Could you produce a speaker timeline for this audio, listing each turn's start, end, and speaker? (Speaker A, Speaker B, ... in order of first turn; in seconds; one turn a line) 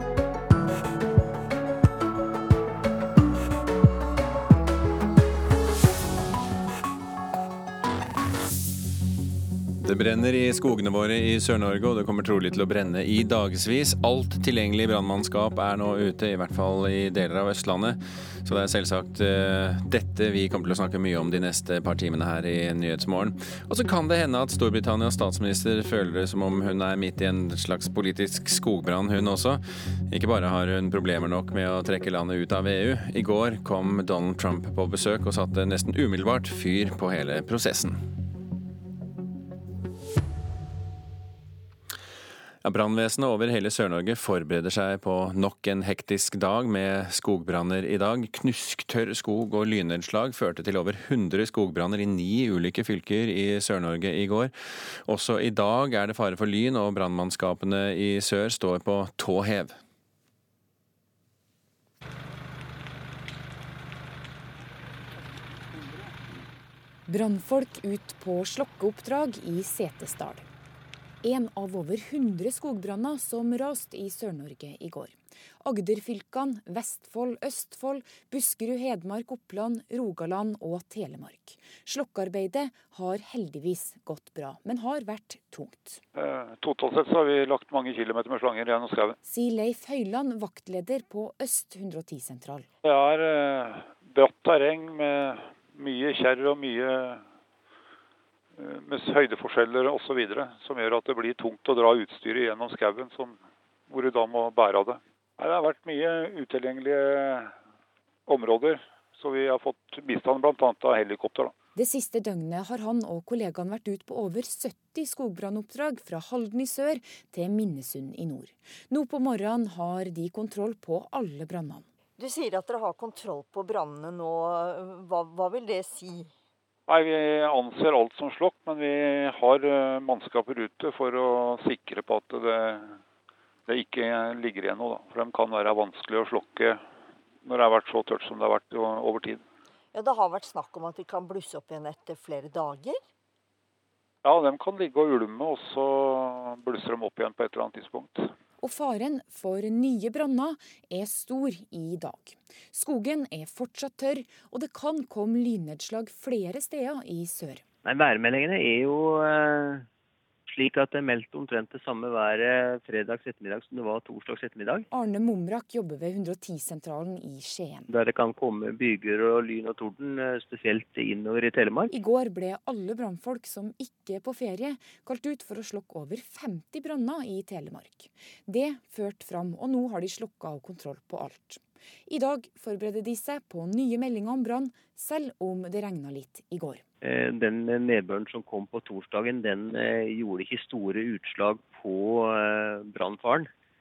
Speaker A: 9.8-38.0
Speaker A: 42.6-54.5
Speaker A: 55.0-59.7
Speaker B: 67.1-70.5
Speaker B: 71.2-86.0
Speaker C: 86.2-89.2
Speaker B: 89.2-92.7
Speaker C: 92.8-97.2
Speaker C: 98.6-103.4
Speaker C: 103.9-107.5
Speaker C: 108.3-111.5
Speaker B: 111.8-121.8
Speaker D: 122.2-126.3
Speaker C: 126.9-133.0
Speaker C: 133.7-136.8
Speaker C: 137.4-139.4
Speaker D: 139.9-143.0
Speaker C: 144.2-148.3
Speaker B: 148.6-157.6
Speaker E: 157.8-159.9
Speaker E: 160.5-164.9
Speaker B: 164.9-167.9
Speaker E: 167.9-171.9
Speaker B: 171.9-186.8
Speaker E: 187.0-193.5